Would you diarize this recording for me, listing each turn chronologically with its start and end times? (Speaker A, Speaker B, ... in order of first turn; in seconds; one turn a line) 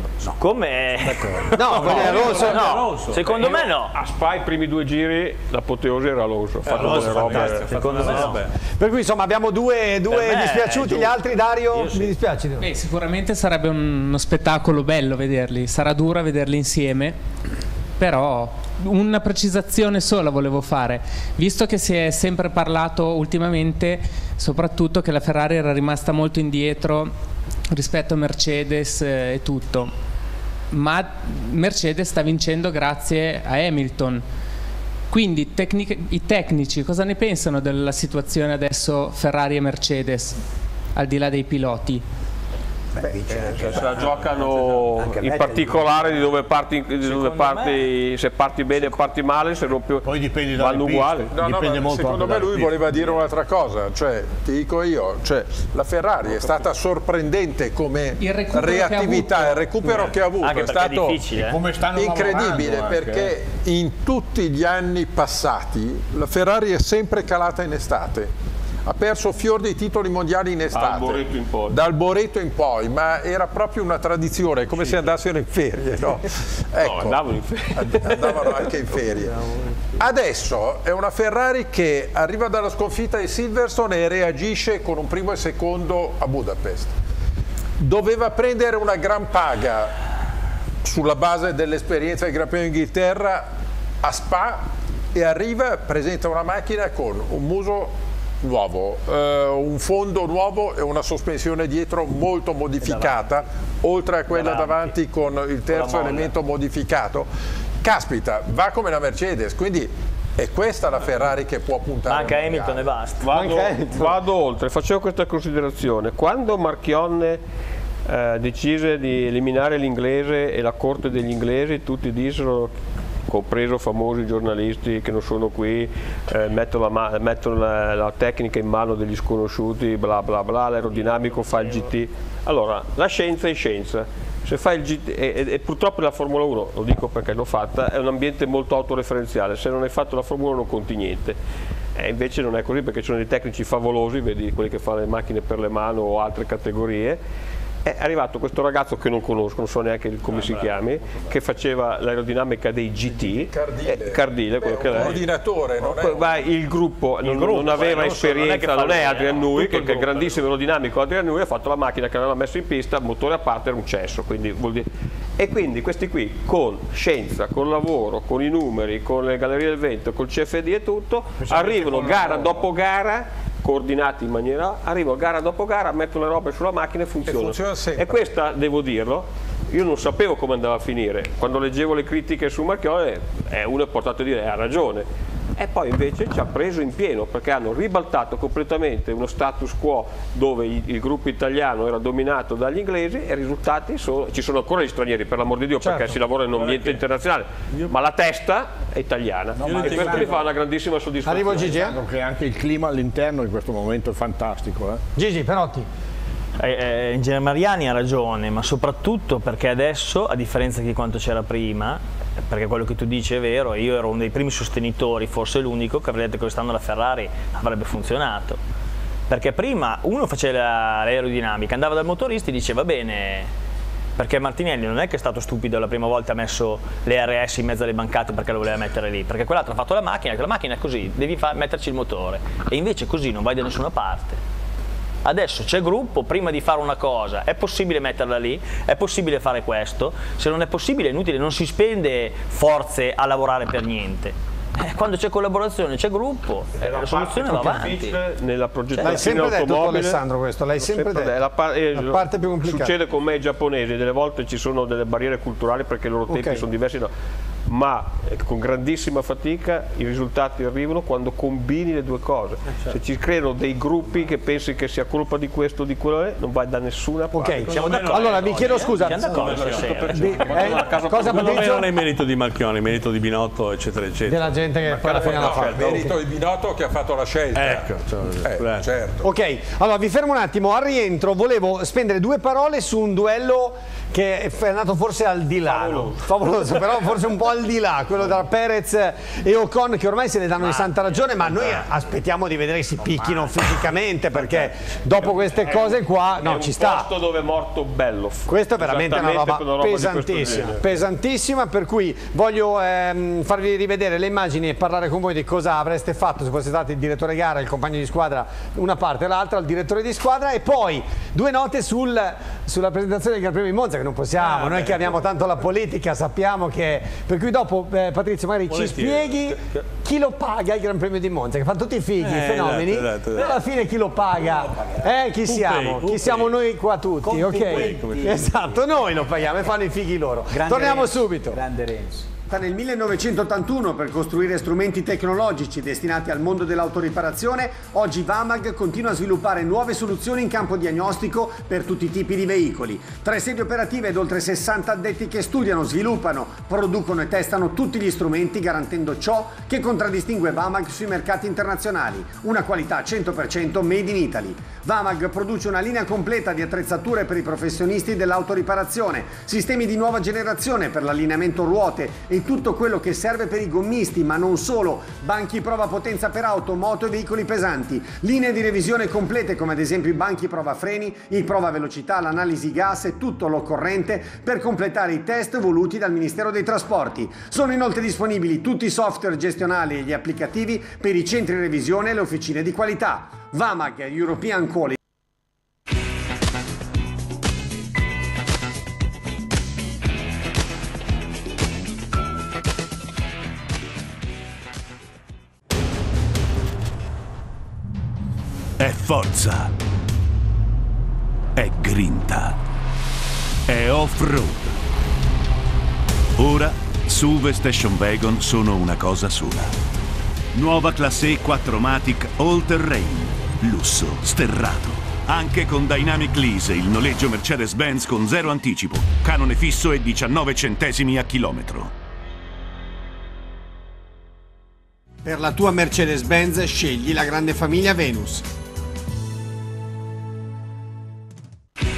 Speaker A: 0.4-3.9
Speaker B: 1.0-2.9
Speaker C: 1.6-2.7
Speaker D: 1.6-3.4
Speaker E: 3.4-7.7
Speaker D: 6.6-8.5
Speaker C: 6.7-8.2
Speaker A: 6.8-8.4
Speaker C: 8.8-12.7
Speaker A: 10.1-11.2
Speaker A: 11.7-12.2
Speaker F: 12.6-17.1
Speaker F: 18.0-27.1
Speaker F: 27.7-29.9
Speaker F: 30.7-34.2
Speaker F: 35.1-40.4
Speaker F: 41.0-42.0
Speaker B: 42.9-46.3
Speaker E: 43.4-51.3
Speaker A: 47.0-47.9
Speaker G: 50.0-52.9
Speaker H: 51.3-61.3
Speaker F: 58.2-60.0
Speaker A: 59.9-61.6
Speaker G: 61.3-63.3
Speaker H: 61.9-68.3
Speaker H: 68.8-77.2
Speaker E: 70.7-71.8
Speaker E: 76.8-78.8
Speaker H: 77.8-79.4
Speaker H: 80.0-86.9
Speaker H: 87.8-89.9
Speaker H: 90.8-93.5
Speaker H: 94.0-107.3
Speaker A: 102.8-103.2
Speaker A: 104.3-104.8
Speaker A: 105.7-106.3
Speaker H: 107.8-112.9
Speaker A: 112.0-113.3
Speaker E: 113.2-117.4
Speaker C: 113.3-114.2
Speaker E: 118.1-122.7
Speaker E: 123.3-141.4
Speaker A: 130.9-131.9
Speaker E: 142.0-147.2
Speaker E: 147.8-155.3
Speaker A: 150.3-150.7
Speaker H: 153.1-156.3
Speaker E: 155.8-164.9
Speaker A: 157.2-160.4
Speaker E: 165.4-185.1
Speaker G: 171.4-172.5
Speaker H: 177.3-178.2
Speaker E: 185.6-201.8
Speaker C: 195.8-196.2
Speaker D: 196.5-197.0
Speaker G: 199.6-200.5
Speaker D: 199.6-200.4
Speaker C: 201.2-202.0
Speaker G: 201.7-205.0
Speaker C: 205.2-205.9
Speaker A: 206.6-218.6
Speaker A: 219.3-223.5
Speaker A: 224.2-234.4
Speaker A: 235.2-248.2
Speaker E: 246.8-250.2
Speaker A: 249.0-249.3
Speaker C: 249.0-251.3
Speaker E: 250.8-257.1
Speaker C: 251.9-252.9
Speaker C: 256.3-256.6
Speaker E: 257.7-267.9
Speaker C: 267.3-271.9
Speaker D: 267.6-275.3
Speaker A: 267.7-270.5
Speaker E: 269.5-271.6
Speaker C: 274.3-276.2
Speaker E: 275.2-276.0
Speaker H: 275.2-279.2
Speaker D: 277.5-278.9
Speaker C: 279.2-297.1
Speaker E: 285.6-286.2
Speaker E: 295.7-300.8
Speaker C: 298.5-331.6
Speaker D: 314.4-315.2
Speaker D: 318.7-319.6
Speaker D: 322.2-323.6
Speaker B: 324.4-325.1
Speaker D: 325.4-326.6
Speaker B: 327.2-328.8
Speaker D: 327.3-328.5
Speaker B: 330.5-332.3
Speaker C: 332.5-385.0
Speaker I: 398.8-399.7
Speaker I: 401.6-402.6
Speaker I: 403.7-404.7
Speaker I: 406.4-409.7
Speaker I: 410.5-421.9
Speaker C: 425.2-428.4